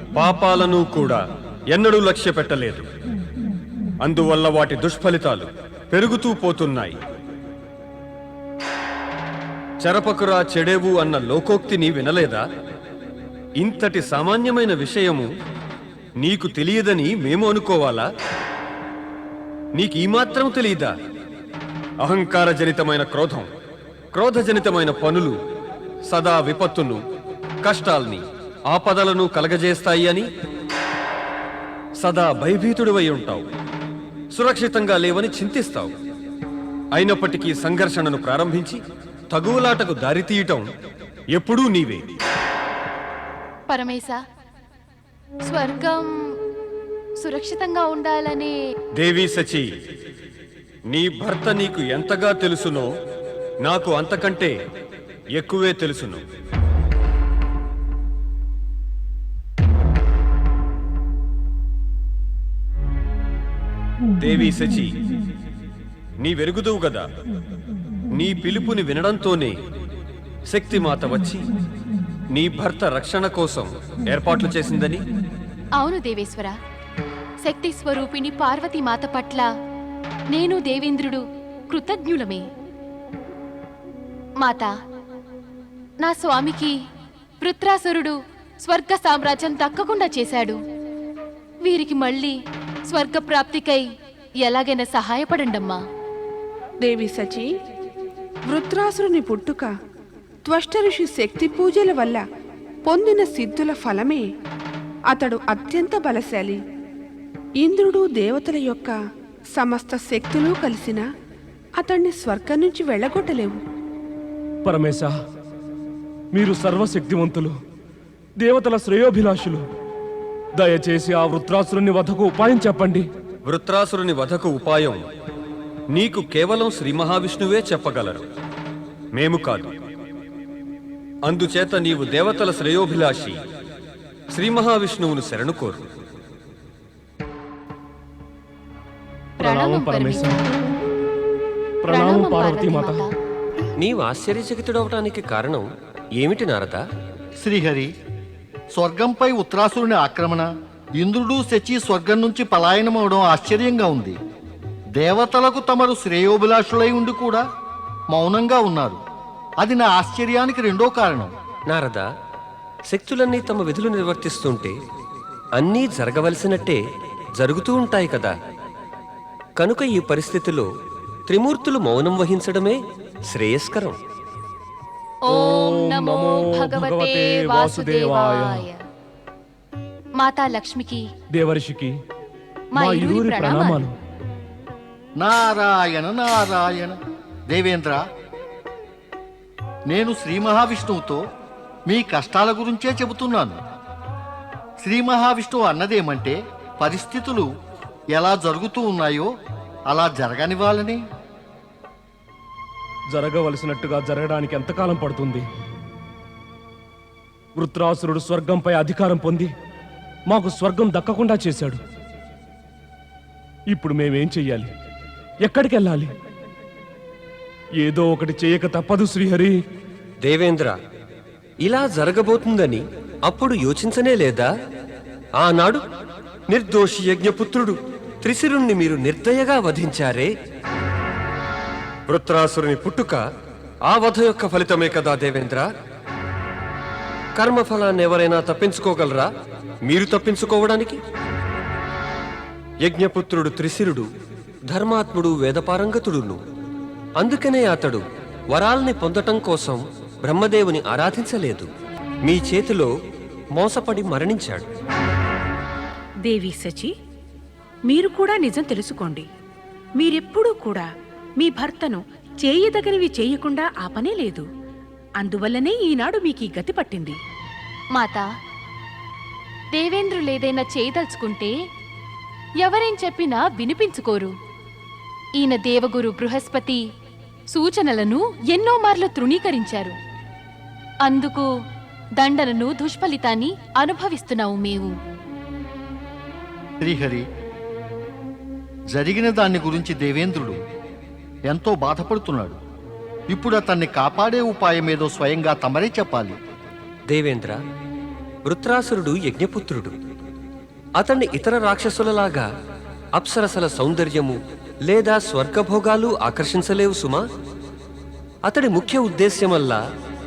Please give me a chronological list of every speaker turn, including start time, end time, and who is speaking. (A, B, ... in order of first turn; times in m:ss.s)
0:00.2-0:02.9 A
0:04.0-0:07.0 A
0:09.8-0:12.4 A
0:13.6-0:15.3 A
0:16.2-0:18.1 A
0:19.8-0:20.9 A
0:22.0-0:23.5 A
0:24.1-0:25.4 A
0:26.1-0:27.0 A
0:27.6-0:30.3 A
0:32.0-0:33.5 A
0:34.3-0:35.9 A
0:37.0-0:40.7 A
0:41.4-0:42.1 A
0:43.7-0:44.2 B
0:45.5-0:46.4 B
0:47.2-0:48.6 B
0:49.0-0:49.7 A
0:50.9-0:52.9 A
0:53.6-0:54.5 A
0:55.4-0:56.2 A
1:04.2-1:05.0 A
1:06.2-1:07.1 A
1:08.1-1:09.6 A
1:10.5-1:11.4 A
1:12.3-1:15.0 A
1:15.8-1:16.6 B
1:17.4-1:19.5 B
1:20.3-1:22.5 B
1:24.4-1:24.7 B
1:26.0-1:26.7 B
1:27.4-1:30.6 B
1:31.6-1:32.4 B
1:32.9-1:33.8 B
1:34.4-1:35.8 B
1:36.8-1:37.4 C
1:38.5-1:39.7 C
1:40.5-1:42.2 C
1:42.9-1:44.2 C
1:45.1-1:46.6 C
1:47.6-1:48.9 C
1:49.6-1:51.0 C
1:51.8-1:53.6 C
1:54.6-1:55.1 D
1:56.3-1:57.6 D
1:58.4-1:59.6 D
2:00.6-2:03.1 D
2:03.5-2:05.0 A
2:05.9-2:08.2 A
2:09.2-2:09.7 A
2:11.3-2:13.4 A
2:14.3-2:15.8 A
2:19.4-2:20.4 D
2:19.4-2:20.4 B
2:21.8-2:23.0 D
2:21.9-2:23.1 B
2:23.8-2:26.8 E
2:27.4-2:27.9 F
2:28.8-2:34.2 F
2:35.0-2:37.4 F
2:38.1-2:39.0 F
2:39.6-2:41.3 F
2:41.7-2:42.0 E
2:42.9-2:44.8 E
2:45.6-2:46.8 E
2:47.4-2:48.3 E
2:49.6-2:50.7 E
2:51.3-2:54.0 E
2:55.2-2:58.8 B
2:55.3-2:58.7 D
3:00.2-3:01.0 B
3:01.3-3:02.0 D
3:02.7-3:03.8 B
3:02.8-3:04.0 D
3:05.2-3:07.0 F
3:07.5-3:08.0 F
3:09.9-3:11.2 F
3:11.9-3:13.6 F
3:14.8-3:17.5 F
3:18.1-3:19.3 F
3:19.9-3:21.0 F
3:23.1-3:25.5 D
3:27.6-3:29.5 D
3:30.3-3:31.8 D
3:33.7-3:34.7 D
3:35.4-3:36.1 D
3:37.8-3:39.6 D
3:40.2-3:40.8 E
3:41.6-3:44.5 E
3:45.4-3:45.8 E
3:46.5-3:50.3 E
3:52.1-3:53.2 E
3:53.9-3:55.7 E
3:57.4-3:59.3 E
3:59.9-4:01.0 E
4:02.8-4:04.1 E
4:04.7-4:06.4 E
4:07.2-4:11.7 E
4:12.2-4:12.9 E
4:13.6-4:14.7 E
4:16.2-4:16.9 G
4:17.9-4:19.3 G
4:20.0-4:24.5 G
4:25.2-4:27.2 G
4:28.0-4:28.3 B
4:29.7-4:31.5 B
4:32.6-4:34.3 B
4:35.4-4:36.8 B
4:37.5-4:40.0 B
4:41.1-4:41.5 B
4:42.2-4:44.9 B
4:46.8-4:47.2 F
4:48.9-4:50.6 F
4:51.5-4:52.6 F
4:53.3-4:56.4 F
4:57.1-4:57.6 E
4:58.4-4:59.9 E
5:01.0-5:02.5 E
5:03.2-5:07.2 E
5:08.5-5:09.8 E